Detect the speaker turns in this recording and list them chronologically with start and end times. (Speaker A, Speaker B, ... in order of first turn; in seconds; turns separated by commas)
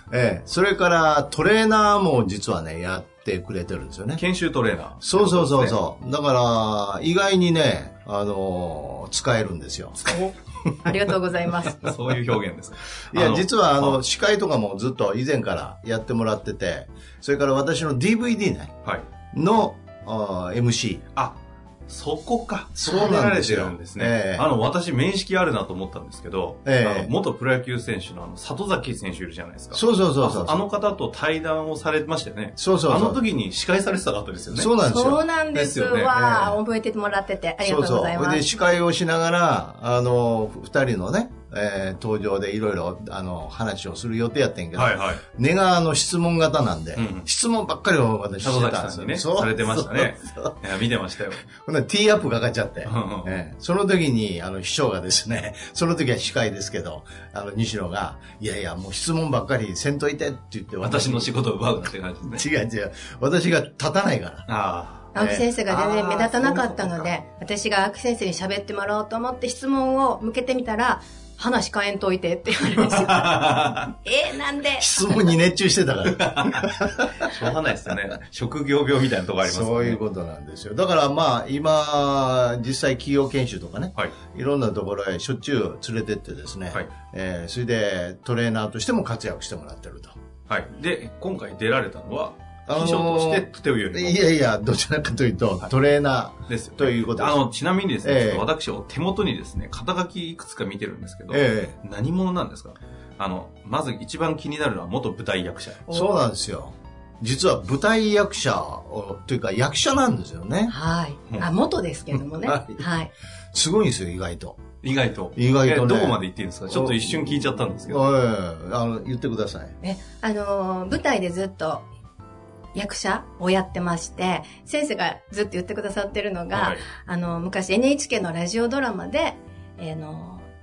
Speaker A: 0.1-4.2, Speaker B: 4.2-5.8, Speaker A: 5.0-10.0, Speaker C: 10.1-10.3, Speaker C: 10.8-11.9, Speaker B: 11.8-14.0, Speaker A: 13.1-18.7, Speaker A: 19.3-21.0, Speaker B: 21.1-34.7, Speaker A: 22.8-24.5, Speaker A: 26.6-27.1, Speaker A: 29.7-30.6, Speaker A: 32.6-33.2, Speaker A: 34.5-35.3, Speaker C: 34.9-38.5, Speaker B: 35.5-36.2, Speaker A: 36.1-36.6, Speaker A: 37.6-50.6, Speaker B: 44.8-45.2, Speaker B: 47.0-47.3, Speaker B: 48.4-51.4, Speaker A: 51.4-61.3, Speaker B: 52.9-53.3, Speaker B: 60.8-62.5, Speaker A: 62.3-64.5, Speaker B: 64.5-65.1, Speaker C: 65.1-74.9, Speaker A: 65.2-67.0, Speaker B: 65.8-66.8, Speaker B: 72.8-73.9, Speaker A: 74.8-77.3, Speaker B: 76.1-80.0, Speaker A: 79.4-90.2, Speaker B: 90.5-94.3, Speaker A: 92.7-97.4, Speaker B: 96.5-105.9, Speaker A: 98.0-98.5, Speaker A: 101.3-101.8, Speaker A: 105.9-110.8, Speaker C: 110.7-113.1, Speaker A: 112.4-112.8, Speaker A: 113.5-114.6, Speaker B: 114.8-118.0, Speaker A: 115.4-119.8, Speaker C: 119.8-121.9, Speaker C: 122.7-130.5, Speaker B: 126.5-126.8